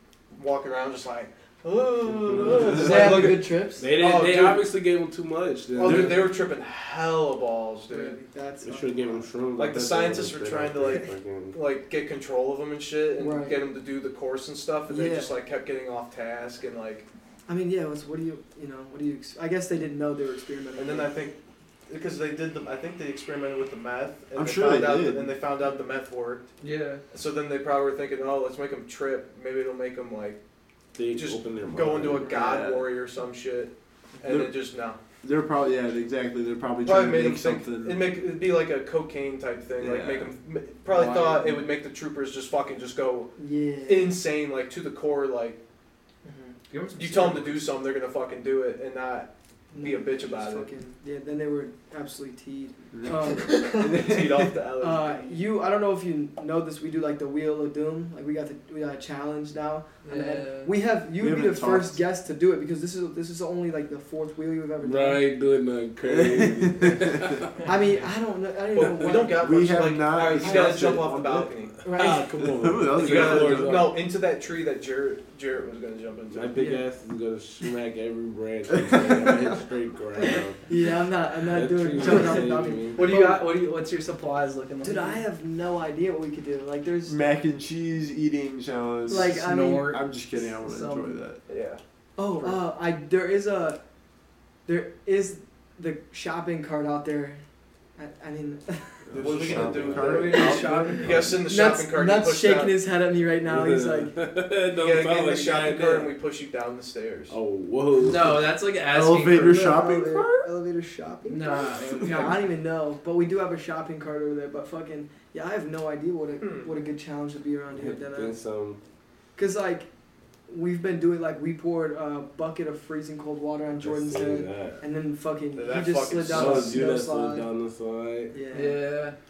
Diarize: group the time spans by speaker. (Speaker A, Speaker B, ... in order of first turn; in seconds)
Speaker A: 0.3-4.7, 5.8-8.2, 9.6-17.1, 20.8-21.4, 21.9-26.5, 27.1-30.4, 31.1-35.0, 36.8-45.6, 47.0-50.7, 53.4-55.4, 68.7-71.8, 72.9-76.6, 91.5-91.8, 99.2-102.8, 104.7-107.3, 116.4-116.7, 125.5-126.8
Speaker B: 2.2-6.3, 8.6-11.6, 31.0-32.4, 64.8-67.5, 71.9-74.0, 76.3-80.6, 81.5-83.0, 99.1-100.3, 101.0-101.3, 103.4-106.1, 107.3-108.4, 117.7-118.8, 123.8-124.8, 126.3-128.3
Speaker C: 2.5-2.8, 5.8-6.2, 24.3-25.4, 32.2-32.9, 34.2-34.5, 35.2-38.2, 39.8-40.3, 52.9-54.6, 61.2-62.0, 66.1-67.5, 68.8-71.5, 72.4-73.9, 78.9-79.3, 87.1-91.4, 99.1-101.4, 108.9-110.5
Speaker D: 2.8-3.9, 7.9-9.3, 13.2-13.6, 14.9-15.3, 17.5-21.1, 43.4-44.2, 46.2-46.6, 49.7-54.1, 54.8-65.2, 67.6-69.5, 70.2-70.9, 71.8-72.3, 76.6-76.8, 80.6-83.4, 84.8-87.2, 89.1-89.9, 92.2-93.8, 94.7-97.4, 98.0-99.0, 99.9-104.1, 109.4-118.4, 119.4-119.9, 120.5-127.5, 128.3-128.8
Speaker E: 26.6-27.0, 40.9-41.6, 46.7-47.7, 60.0-60.8, 82.0-82.3, 82.9-85.2, 89.1-91.1, 100.4-101.0, 108.0-109.7, 111.2-112.4, 128.5-129.2